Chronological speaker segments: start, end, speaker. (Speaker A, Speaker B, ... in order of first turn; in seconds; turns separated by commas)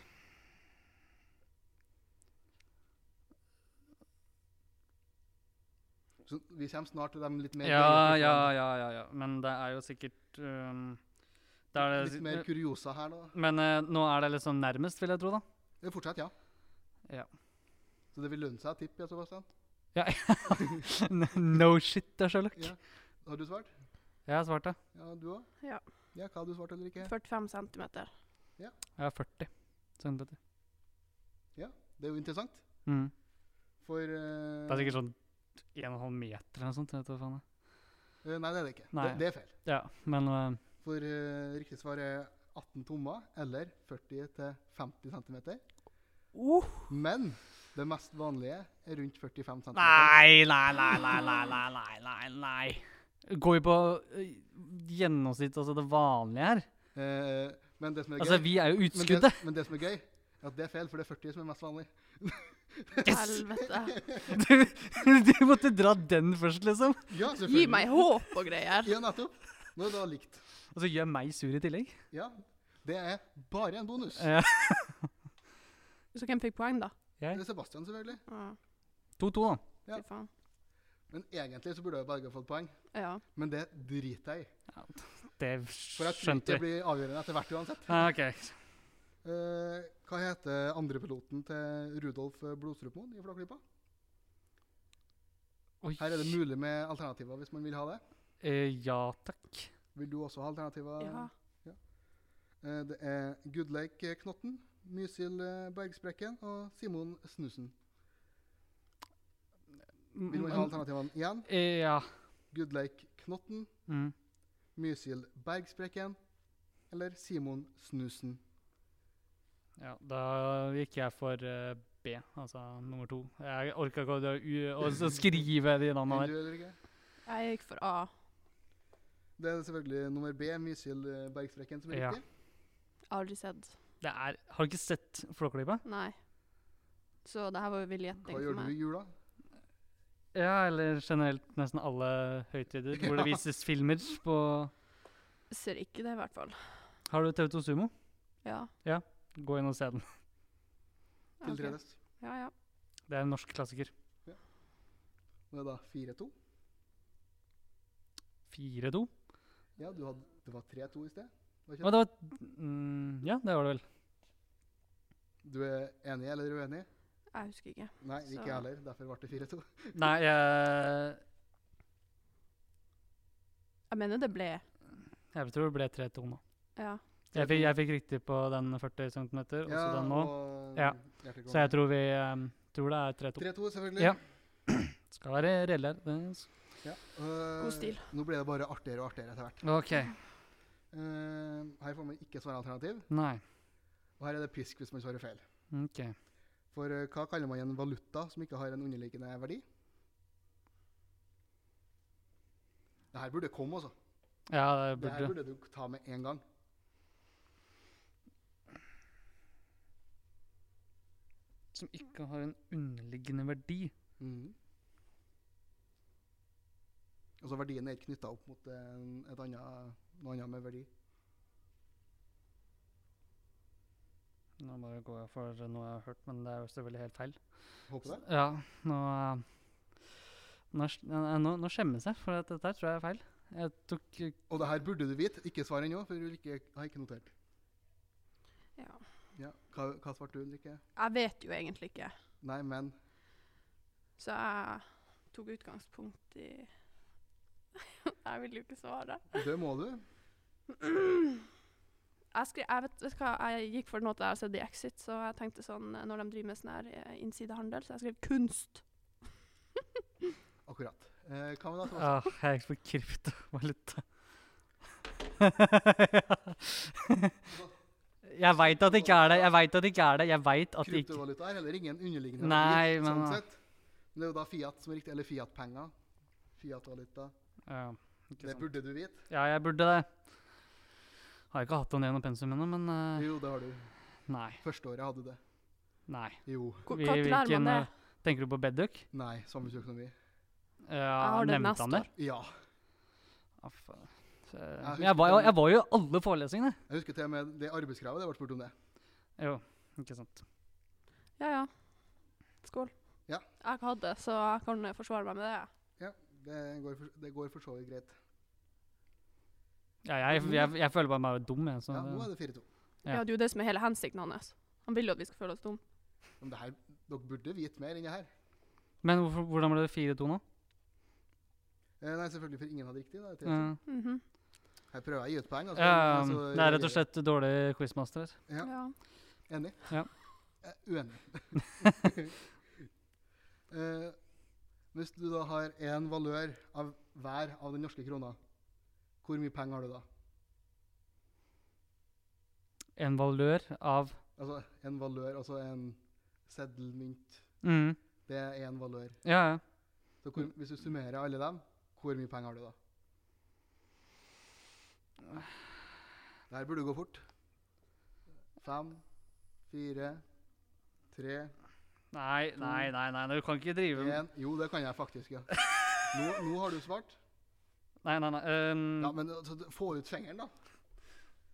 Speaker A: 6.3-8.5, Speaker B: 7.6-11.0, Speaker B: 11.7-12.4, Speaker A: 11.8-13.3, Speaker B: 13.3-15.4, Speaker A: 15.8-16.3, Speaker A: 18.1-19.5, Speaker B: 19.9-22.8, Speaker A: 22.6-23.7, Speaker B: 24.3-24.8, Speaker A: 24.9-25.5, Speaker A: 26.1-27.1, Speaker C: 27.0-28.1, Speaker B: 29.0-30.4, Speaker A: 31.6-32.6, Speaker B: 32.9-33.1, Speaker A: 33.8-35.0, Speaker B: 34.7-35.2, Speaker B: 35.7-37.4, Speaker A: 38.2-39.5, Speaker B: 38.9-40.6, Speaker A: 40.8-45.6, Speaker B: 46.4-46.9, Speaker A: 46.9-50.2, Speaker B: 49.8-56.7, Speaker A: 57.0-63.1, Speaker B: 58.2-59.4, Speaker C: 63.0-64.0, Speaker B: 63.1-63.4, Speaker A: 63.9-64.3, Speaker B: 64.2-67.1, Speaker A: 67.1-68.1, Speaker C: 67.4-68.9, Speaker A: 68.8-70.4, Speaker B: 70.7-72.0, Speaker A: 72.1-74.3, Speaker B: 74.2-75.1, Speaker C: 76.1-76.9, Speaker A: 77.3-78.2, Speaker C: 78.3-78.6, Speaker B: 79.2-79.6, Speaker C: 79.9-80.3, Speaker A: 81.1-82.7, Speaker C: 82.9-83.2, Speaker A: 83.3-84.5, Speaker B: 84.8-86.6, Speaker A: 86.0-88.1, Speaker B: 87.9-88.6, Speaker A: 89.2-93.6, Speaker B: 95.8-96.3, Speaker A: 96.0-98.0, Speaker B: 98.4-99.7, Speaker A: 100.0-101.8, Speaker C: 101.0-101.3, Speaker A: 102.6-107.7, Speaker B: 110.1-110.8, Speaker A: 110.3-111.5, Speaker B: 111.5-112.1, Speaker A: 112.5-113.7, Speaker B: 113.9-114.1, Speaker A: 114.8-116.2, Speaker A: 116.9-118.4, Speaker B: 119.8-126.3, Speaker A: 126.1-126.8, Speaker C: 127.3-128.1, Speaker A: 129.4-132.2, Speaker B: 131.9-132.2, Speaker C: 133.1-133.7, Speaker B: 134.0-135.8, Speaker C: 135.8-136.2, Speaker C: 137.2-138.7, Speaker A: 138.3-139.1, Speaker B: 140.3-144.7, Speaker A: 143.0-143.4, Speaker C: 145.5-146.6, Speaker B: 147.1-147.9, Speaker C: 148.4-148.7, Speaker B: 148.8-150.1, Speaker C: 151.4-152.5, Speaker A: 151.4-151.9, Speaker B: 153.1-153.9, Speaker A: 155.5-156.3, Speaker B: 158.5-159.1, Speaker A: 159.8-161.9, Speaker B: 161.8-163.8, Speaker A: 165.4-166.9, Speaker C: 167.3-168.6, Speaker A: 168.0-170.0, Speaker B: 169.9-171.2, Speaker C: 173.9-174.6, Speaker B: 175.3-176.4, Speaker C: 176.8-177.0, Speaker B: 177.3-186.5, Speaker A: 177.3-177.8, Speaker A: 179.7-181.7, Speaker A: 183.4-184.2, Speaker A: 186.8-189.6, Speaker C: 187.6-188.0, Speaker B: 189.6-190.2, Speaker A: 190.9-193.1, Speaker B: 193.1-193.4, Speaker A: 194.2-195.4, Speaker B: 195.7-196.2, Speaker A: 196.7-199.6, Speaker A: 203.1-203.9, Speaker B: 204.5-205.3, Speaker A: 205.0-206.4, Speaker B: 211.7-213.9, Speaker A: 214.2-214.6, Speaker A: 217.4-220.9, Speaker B: 224.6-227.4, Speaker A: 227.9-228.2, Speaker B: 228.1-229.5, Speaker B: 230.7-234.4, Speaker A: 234.5-237.3, Speaker A: 239.3-240.8, Speaker C: 241.0-242.1, Speaker A: 242.4-242.9, Speaker C: 244.2-246.7, Speaker C: 247.9-249.4, Speaker A: 249.3-250.0, Speaker C: 250.7-251.4, Speaker C: 252.3-258.8, Speaker A: 260.6-262.3, Speaker B: 262.0-264.0, Speaker B: 265.4-267.3, Speaker B: 268.3-271.2, Speaker A: 268.4-269.5, Speaker A: 270.8-273.6, Speaker B: 272.4-273.4, Speaker A: 274.1-275.9, Speaker A: 276.6-277.3, Speaker B: 277.7-278.7, Speaker A: 278.4-279.2, Speaker B: 279.3-280.1, Speaker B: 281.5-283.3, Speaker A: 283.1-283.9, Speaker B: 284.3-284.6, Speaker A: 284.6-285.4, Speaker B: 286.1-289.1, Speaker A: 286.5-286.9, Speaker C: 286.9-287.9, Speaker A: 289.1-290.1, Speaker B: 290.9-292.1, Speaker C: 291.2-292.1, Speaker A: 292.2-292.5, Speaker B: 293.6-296.8, Speaker A: 294.8-295.6, Speaker A: 296.9-298.7, Speaker B: 299.4-300.4, Speaker C: 301.4-301.7, Speaker C: 302.6-302.9, Speaker C: 303.6-305.7, Speaker A: 306.0-308.2, Speaker B: 310.1-312.3, Speaker A: 310.3-310.7, Speaker A: 311.9-312.6, Speaker C: 313.1-315.8, Speaker A: 316.4-318.3, Speaker B: 319.0-320.4, Speaker A: 322.0-323.7, Speaker B: 323.4-323.8, Speaker C: 323.9-324.2, Speaker A: 324.9-327.0, Speaker B: 325.7-328.4, Speaker C: 328.6-328.9, Speaker A: 329.5-329.9, Speaker A: 330.6-332.4, Speaker A: 333.7-334.2, Speaker A: 334.9-338.4, Speaker A: 339.2-340.1, Speaker B: 343.0-344.2, Speaker A: 344.4-347.4, Speaker B: 347.6-348.0, Speaker A: 348.3-349.2, Speaker B: 349.2-349.6, Speaker A: 350.2-352.8, Speaker A: 356.5-357.2, Speaker A: 358.6-359.0, Speaker A: 359.7-360.2, Speaker A: 361.1-361.5, Speaker B: 362.1-364.2, Speaker A: 362.6-362.9, Speaker A: 363.9-365.5, Speaker A: 366.0-367.2, Speaker B: 368.0-369.1, Speaker A: 369.0-370.5